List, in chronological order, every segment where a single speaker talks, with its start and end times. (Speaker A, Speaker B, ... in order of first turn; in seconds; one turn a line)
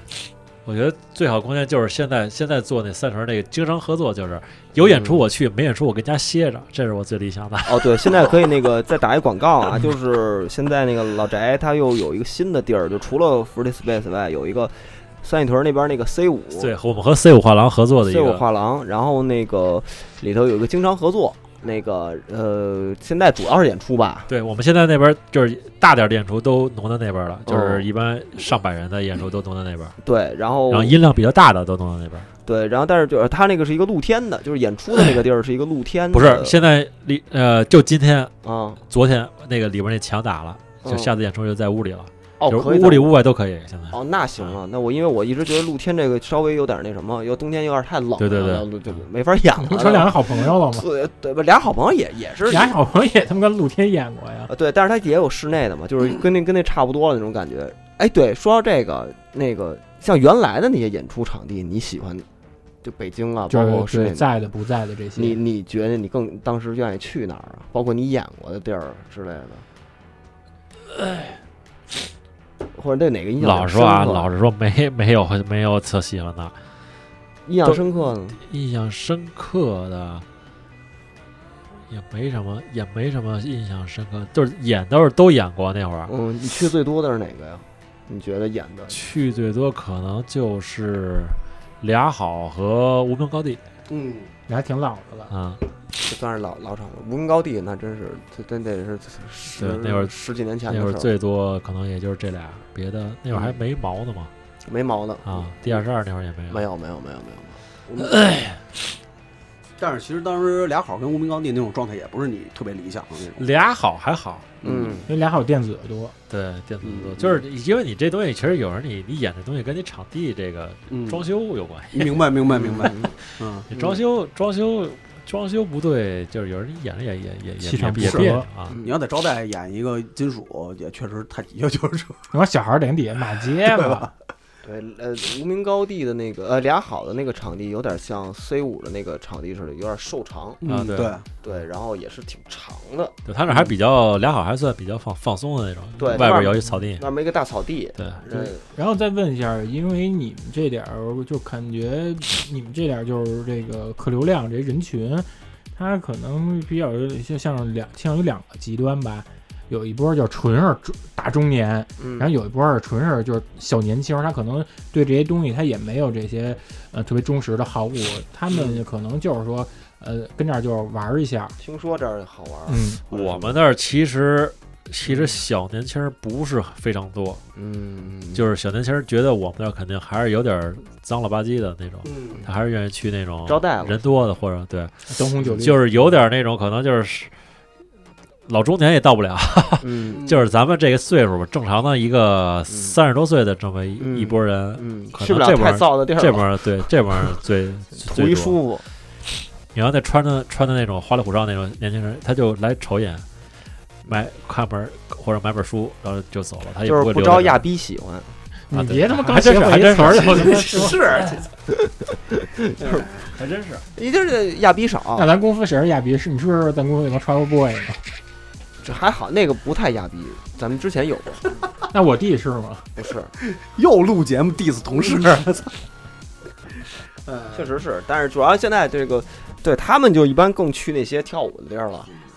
Speaker A: 0.7-8.1
Speaker B: 4.8-5.2
Speaker B: 7.7-16.7
Speaker A: 16.6-18.4
Speaker B: 18.0-24.3
Speaker A: 24.3-30.0
Speaker B: 27.5-27.9
Speaker B: 30.0-31.0
Speaker A: 30.7-32.3
Speaker B: 32.5-36.6
Speaker A: 36.1-38.3
Speaker B: 38.4-38.8
Speaker A: 38.9-44.6
Speaker B: 40.8-41.1
Speaker B: 42.4-43.1
Speaker B: 43.9-52.7
Speaker A: 48.2-48.7
Speaker C: 49.6-50.9
Speaker C: 52.5-54.5
Speaker B: 54.5-62.2
Speaker B: 62.8-64.3
Speaker C: 63.5-65.4
Speaker B: 65.2-69.6
Speaker A: 71.0-71.4
Speaker B: 72.8-74.3
Speaker A: 73.4-76.5
Speaker B: 77.5-78.4
Speaker A: 78.4-80.3
Speaker A: 81.9-86.1
Speaker B: 86.1-89.0
Speaker A: 88.9-93.6
Speaker D: 93.9-94.3
Speaker C: 94.5-95.3
Speaker A: 95.3-95.6
Speaker B: 96.0-101.1
Speaker A: 99.6-100.2
Speaker A: 100.7-104.3
Speaker B: 104.7-105.8
Speaker A: 105.3-106.6
Speaker B: 106.5-108.1
Speaker A: 108.0-108.6
Speaker D: 109.8-113.4
Speaker A: 113.4-114.5
Speaker D: 114.6-115.0
Speaker B: 114.6-115.1
Speaker C: 115.1-116.1
Speaker A: 116.3-128.8
Speaker D: 116.8-117.4
Speaker D: 120.9-121.2
Speaker D: 121.9-123.7
Speaker B: 122.6-123.1
Speaker B: 123.7-124.0
Speaker C: 127.6-128.4
Speaker D: 128.0-132.2
Speaker B: 128.7-129.0
Speaker C: 132.3-134.1
Speaker D: 133.6-134.1
Speaker B: 134.6-140.6
Speaker D: 140.6-141.2
Speaker A: 140.7-141.2
Speaker B: 141.4-143.2
Speaker A: 143.3-147.1
Speaker B: 146.0-148.7
Speaker C: 148.7-171.6
Speaker B: 162.0-162.3
Speaker B: 168.5-168.8
Speaker B: 171.6-173.6
Speaker C: 172.7-173.0
Speaker A: 173.1-177.4
Speaker B: 175.1-175.3
Speaker B: 177.6-178.4
Speaker A: 178.3-184.9
Speaker D: 182.1-182.4
Speaker B: 183.5-184.2
Speaker C: 185.1-185.9
Speaker B: 185.4-185.8
Speaker A: 185.4-187.3
Speaker A: 188.5-198.6
Speaker B: 189.8-190.2
Speaker D: 190.1-190.5
Speaker B: 192.7-193.0
Speaker B: 194.0-196.8
Speaker B: 198.0-198.8
Speaker A: 199.7-203.2
Speaker A: 204.1-207.6
Speaker B: 206.8-208.3
Speaker C: 208.7-211.0
Speaker A: 208.7-211.4
Speaker D: 210.1-211.5
Speaker B: 211.7-213.1
Speaker D: 212.8-213.1
Speaker A: 213.3-213.8
Speaker B: 213.9-215.3
Speaker C: 215.2-218.0
Speaker B: 218.8-221.6
Speaker C: 221.9-222.9
Speaker B: 223.0-223.3
Speaker D: 223.5-225.7
Speaker D: 227.3-227.6
Speaker B: 227.5-232.1